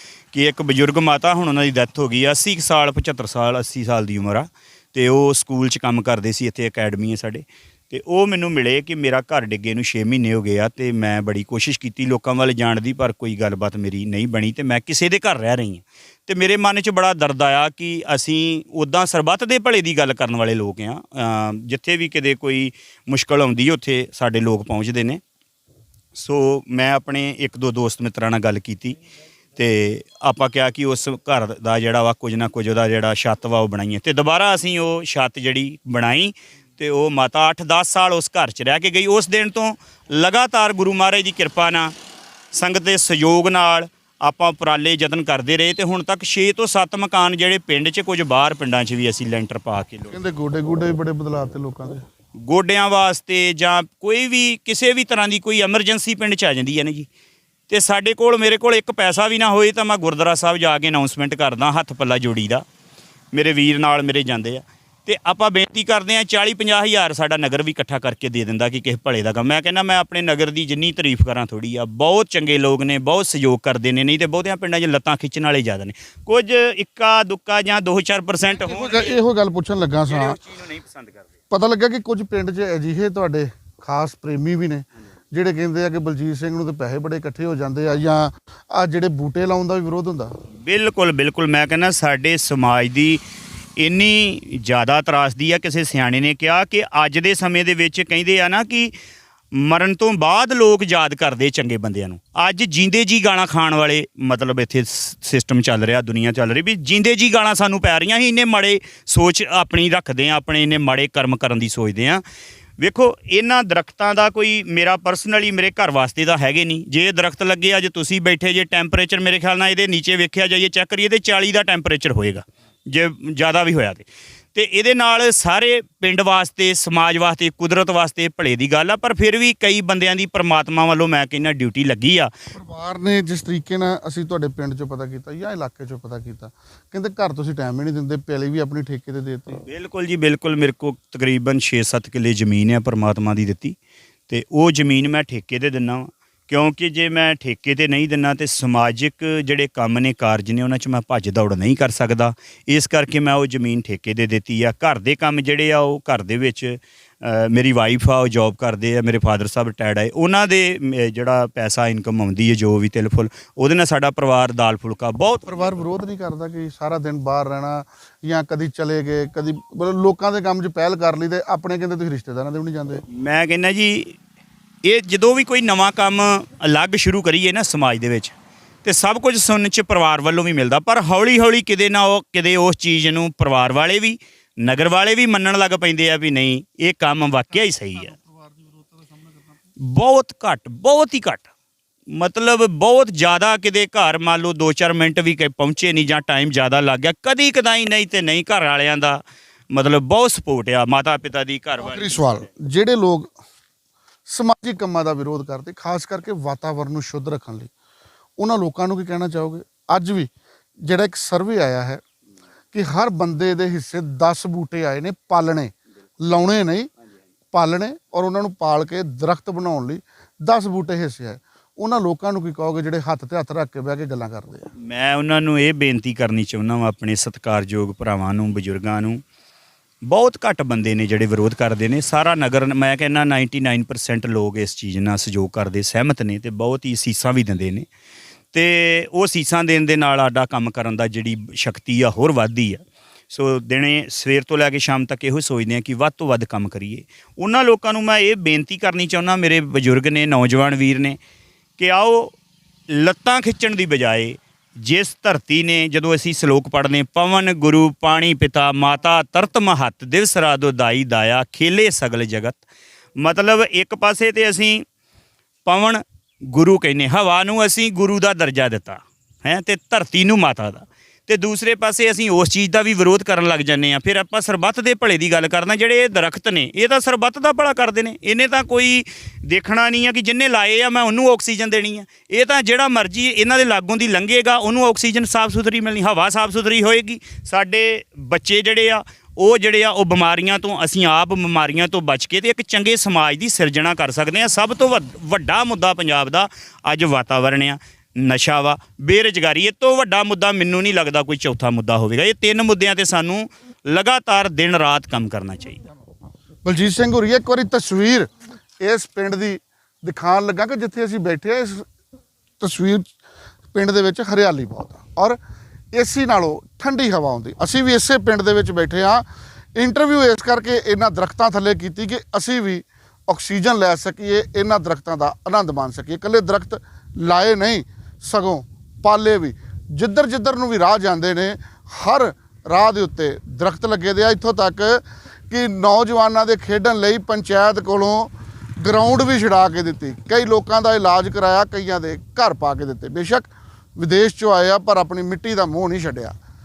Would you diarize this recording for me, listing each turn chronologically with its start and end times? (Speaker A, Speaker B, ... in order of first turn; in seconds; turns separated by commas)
Speaker A: 0.3-25.2, Speaker A: 26.1-29.0, Speaker A: 29.6-41.9, Speaker A: 42.5-50.1, Speaker B: 50.1-52.0, Speaker A: 52.4-57.1, Speaker A: 57.7-62.6, Speaker A: 63.3-79.2, Speaker B: 78.6-80.4, Speaker A: 80.1-81.2, Speaker B: 81.5-90.3, Speaker A: 90.6-93.2, Speaker A: 93.8-98.9, Speaker A: 99.5-112.2, Speaker A: 112.8-132.3, Speaker B: 132.5-139.6, Speaker A: 139.7-143.8, Speaker A: 144.3-165.7, Speaker B: 165.5-173.0, Speaker A: 173.1-174.2, Speaker A: 174.8-188.1, Speaker B: 188.1-189.3, Speaker A: 189.8-191.4, Speaker A: 192.1-199.2, Speaker A: 199.7-202.4, Speaker B: 201.8-203.3, Speaker B: 204.3-207.7, Speaker B: 208.4-210.3, Speaker B: 210.8-212.0, Speaker B: 212.7-216.9, Speaker B: 217.5-224.7, Speaker A: 224.8-229.2, Speaker A: 230.1-237.9, Speaker A: 238.5-251.2, Speaker A: 251.8-252.3, Speaker A: 252.9-262.6, Speaker A: 263.2-264.8, Speaker A: 265.6-305.8, Speaker B: 306.6-308.3, Speaker B: 308.8-311.9, Speaker B: 312.6-313.1, Speaker B: 313.7-315.4, Speaker B: 315.9-346.4